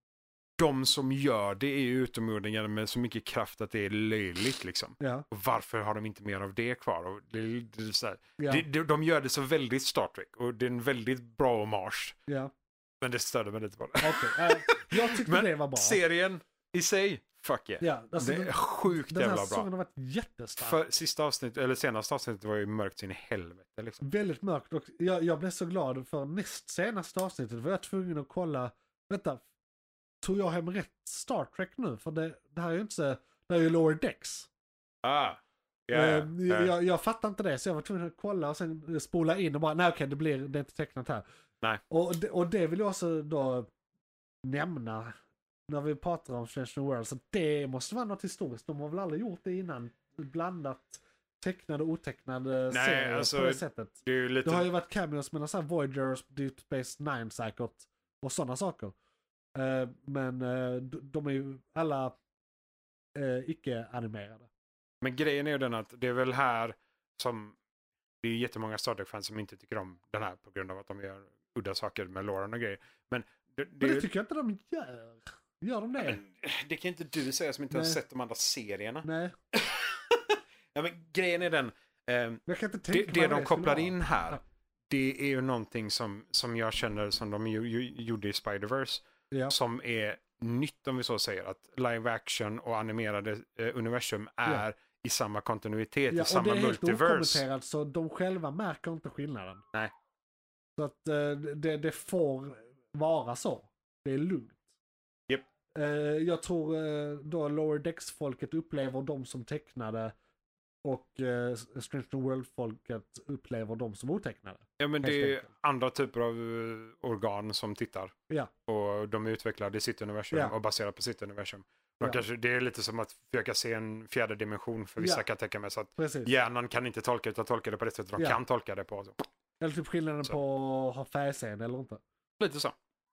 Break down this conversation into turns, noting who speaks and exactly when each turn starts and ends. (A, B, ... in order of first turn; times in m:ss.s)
0:00.6-0:12.2 A
0:05.0-0:05.2 B
0:08.4-0:08.6 B
0:12.3-0:12.5 B
0:13.0-0:19.6 A
0:14.0-0:16.0 B
0:17.8-0:20.8 B
0:20.6-0:24.0 A
0:24.0-0:29.4 B
0:30.2-0:34.5 B
0:35.0-0:36.7 A
0:35.9-0:41.2 B
0:41.9-0:43.7 B
0:44.4-0:45.1 B
0:45.7-0:58.9 B
0:52.7-0:54.7 A
0:59.6-1:02.1 B
1:03.1-1:04.5 B
1:05.0-1:07.6 A
1:08.2-1:14.1 A
1:13.8-1:16.2 B
1:16.0-1:37.4 A
1:17.7-1:18.0 B
1:19.0-1:19.3 B
1:22.5-1:24.4 B
1:36.1-1:39.6 B
1:40.8-1:44.6 B
1:45.7-1:50.1 B
1:50.8-1:55.4 B
1:54.8-1:58.1 A
1:58.7-2:09.2 A
2:05.0-2:05.2 B
2:06.0-2:06.3 B
2:09.6-2:12.0 B
2:12.4-2:12.8 A